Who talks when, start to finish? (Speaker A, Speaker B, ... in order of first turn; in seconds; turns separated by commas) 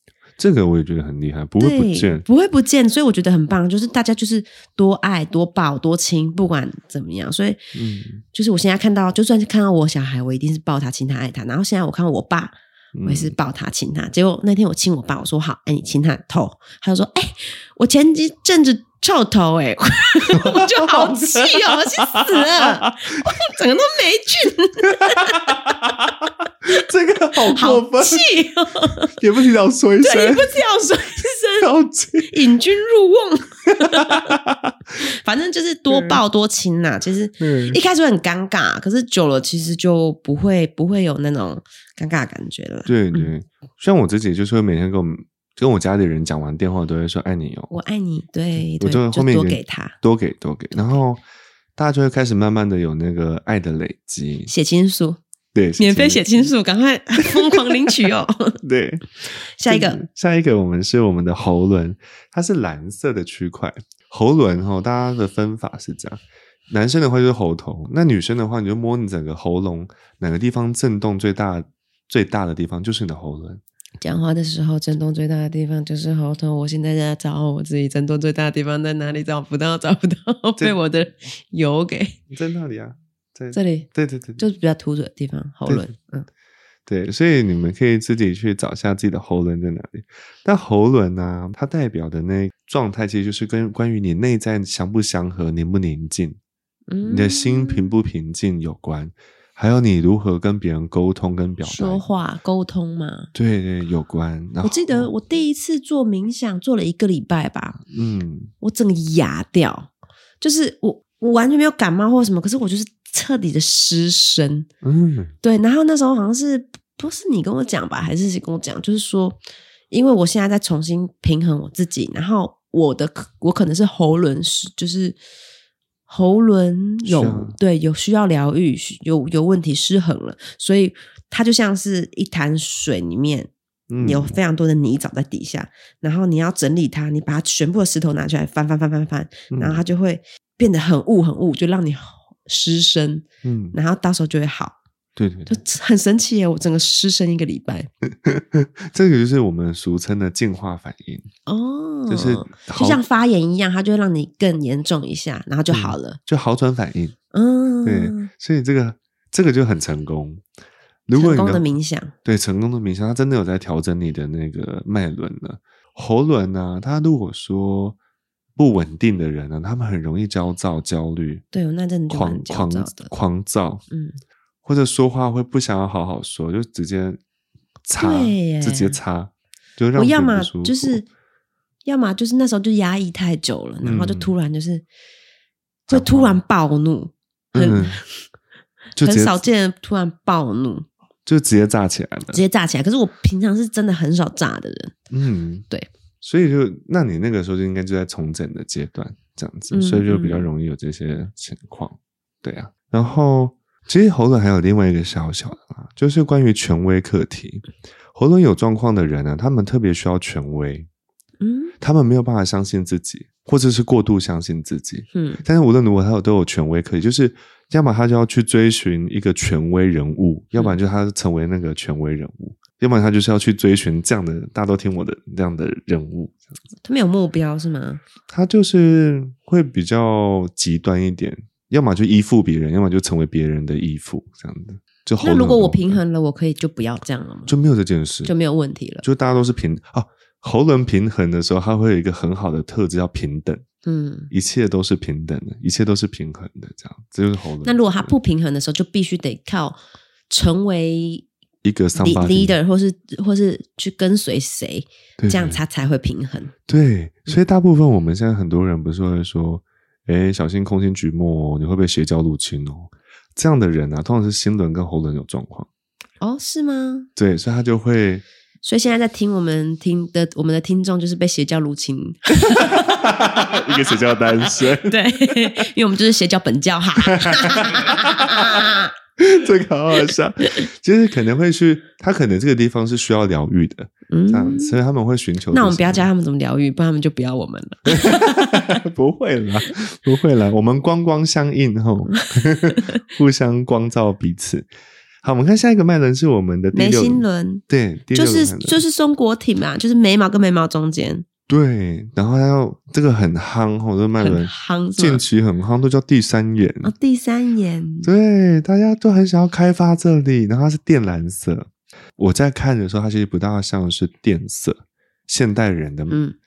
Speaker A: 0.4-2.2, Speaker B: 1.6-7.7, Speaker A: 7.7-8.2, Speaker B: 8.3-25.5, Speaker A: 12.9-13.3, Speaker A: 20.3-23.1, Speaker A: 25.0-28.3, Speaker B: 27.4-29.2, Speaker A: 29.1-30.6, Speaker B: 30.0-31.7, Speaker A: 31.6-32.4, Speaker B: 32.3-34.4, Speaker A: 33.8-34.7, Speaker B: 35.0-43.3, Speaker A: 35.9-36.2, Speaker A: 37.4-37.8, Speaker A: 42.9-47.7, Speaker B: 47.7-50.0, Speaker A: 48.7-51.2, Speaker A: 51.8-54.5, Speaker B: 54.5-55.2, Speaker A: 55.5-56.5, Speaker B: 55.8-58.6, Speaker A: 57.2-57.9, Speaker A: 58.6-59.1, Speaker B: 59.5-60.0, Speaker A: 59.6-73.6, Speaker B: 74.0-82.2, Speaker A: 82.3-84.4, Speaker B: 83.5-86.3, Speaker A: 85.7-85.9, Speaker A: 86.9-96.4, Speaker B: 96.9-97.9, Speaker A: 97.0-102.0, Speaker B: 101.6-103.3, Speaker A: 103.3-105.1, Speaker B: 104.6-107.8, Speaker A: 107.9-108.5, Speaker B: 108.6-109.9, Speaker B: 110.4-114.7, Speaker A: 114.8-115.3, Speaker B: 115.4-119.4, Speaker B: 119.9-125.2, Speaker B: 126.1-144.8, Speaker A: 127.0-127.6, Speaker A: 133.9-134.3, Speaker A: 139.5-139.8, Speaker A: 143.4-143.8, Speaker A: 145.2-145.6, Speaker B: 145.5-147.9, Speaker A: 148.2-151.3, Speaker B: 151.4-156.2, Speaker A: 152.1-153.0, Speaker A: 155.7-157.1, Speaker B: 157.3-158.3, Speaker A: 157.8-160.4, Speaker A: 161.1-161.6, Speaker B: 161.1-162.1, Speaker A: 162.2-168.0, Speaker A: 168.6-171.4, Speaker B: 171.5-173.1, Speaker A: 172.1-173.8, Speaker B: 173.9-174.2, Speaker A: 174.6-177.2, Speaker A: 177.9-181.0, Speaker B: 178.0-179.0, Speaker B: 179.9-181.1, Speaker B: 181.8-184.8, Speaker A: 183.8-184.3, Speaker B: 185.9-188.0, Speaker A: 185.9-186.4, Speaker A: 187.5-188.0, Speaker A: 188.9-189.4, Speaker B: 189.0-190.8, Speaker A: 191.2-192.4, Speaker B: 192.3-194.9, Speaker A: 195.1-195.7, Speaker A: 196.2-210.9, Speaker B: 199.7-200.5, Speaker B: 211.4-211.7, Speaker A: 211.8-226.4, Speaker B: 215.1-215.4, Speaker B: 226.8-228.0, Speaker A: 228.3-236.0, Speaker B: 235.2-237.5, Speaker A: 237.5-238.3, Speaker B: 238.2-239.0, Speaker A: 239.0-243.6, Speaker B: 243.8-244.3, Speaker A: 244.3-248.1, Speaker B: 247.6-249.8, Speaker B: 250.3-251.2, Speaker A: 251.6-252.6, Speaker B: 251.9-256.5, Speaker A: 255.2-255.6, Speaker A: 256.7-265.7, Speaker B: 266.2-267.1, Speaker A: 267.1-268.2, Speaker B: 268.6-272.8, Speaker A: 272.5-275.5, Speaker B: 274.8-278.9, Speaker A: 277.0-278.6, Speaker A: 279.2-286.1, Speaker B: 284.1-284.8, Speaker B: 285.5-288.7, Speaker A: 287.9-294.7, Speaker B: 292.1-292.8, Speaker A: 295.2-298.8, Speaker B: 296.7-301.2, Speaker A: 301.5-306.9, Speaker B: 304.2-305.2, Speaker B: 306.8-308.1, Speaker A: 308.0-316.2, Speaker B: 316.1-316.3